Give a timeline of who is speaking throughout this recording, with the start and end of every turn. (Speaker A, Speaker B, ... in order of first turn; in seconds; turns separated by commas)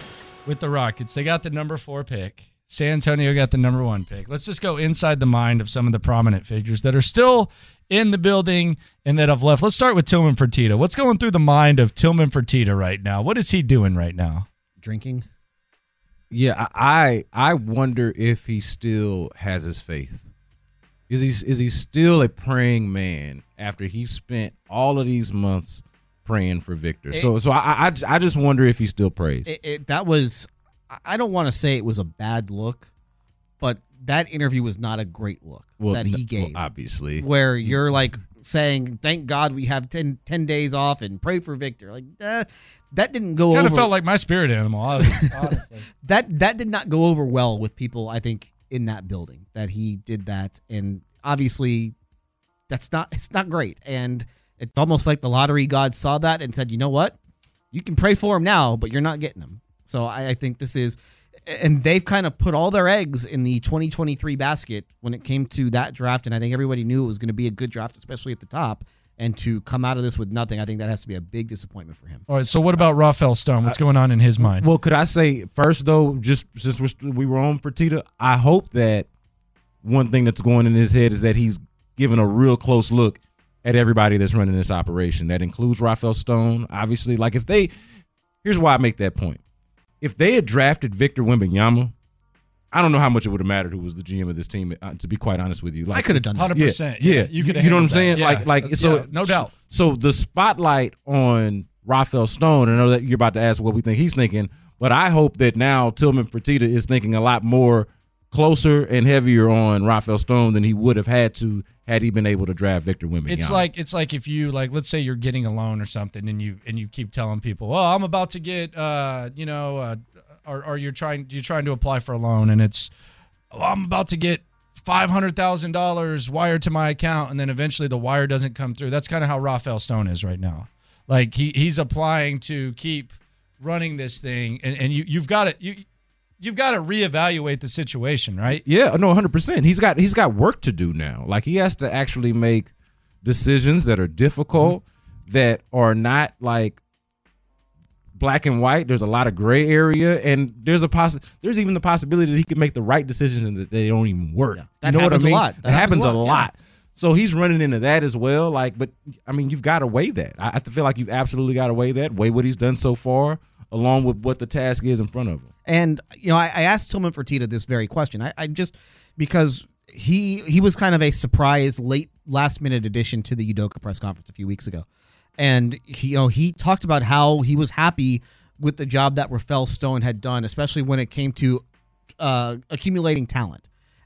Speaker A: 0.5-14.5, Speaker B: 14.8-15.3, Speaker C: 16.3-20.3, Speaker C: 21.1-29.5, Speaker B: 29.5-32.9, Speaker B: 33.6-36.5, Speaker C: 35.8-37.8, Speaker B: 37.2-43.9, Speaker A: 43.5-45.9, Speaker B: 46.0-51.9, Speaker B: 52.7-57.2, Speaker B: 57.7-72.2, Speaker A: 72.3-74.7, Speaker C: 74.4-79.1, Speaker C: 79.8-87.7, Speaker C: 88.4-89.4, Speaker C: 90.0-91.9, Speaker C: 92.7-113.7, Speaker B: 95.9-96.3, Speaker A: 96.3-99.5, Speaker A: 113.3-122.9, Speaker A: 123.5-135.8, Speaker A: 136.4-138.6, Speaker C: 138.5-142.7, Speaker C: 143.2-146.8, Speaker C: 148.2-165.5, Speaker B: 154.8-156.4, Speaker B: 165.7-174.9, Speaker B: 175.4-181.6, Speaker B: 182.2-183.7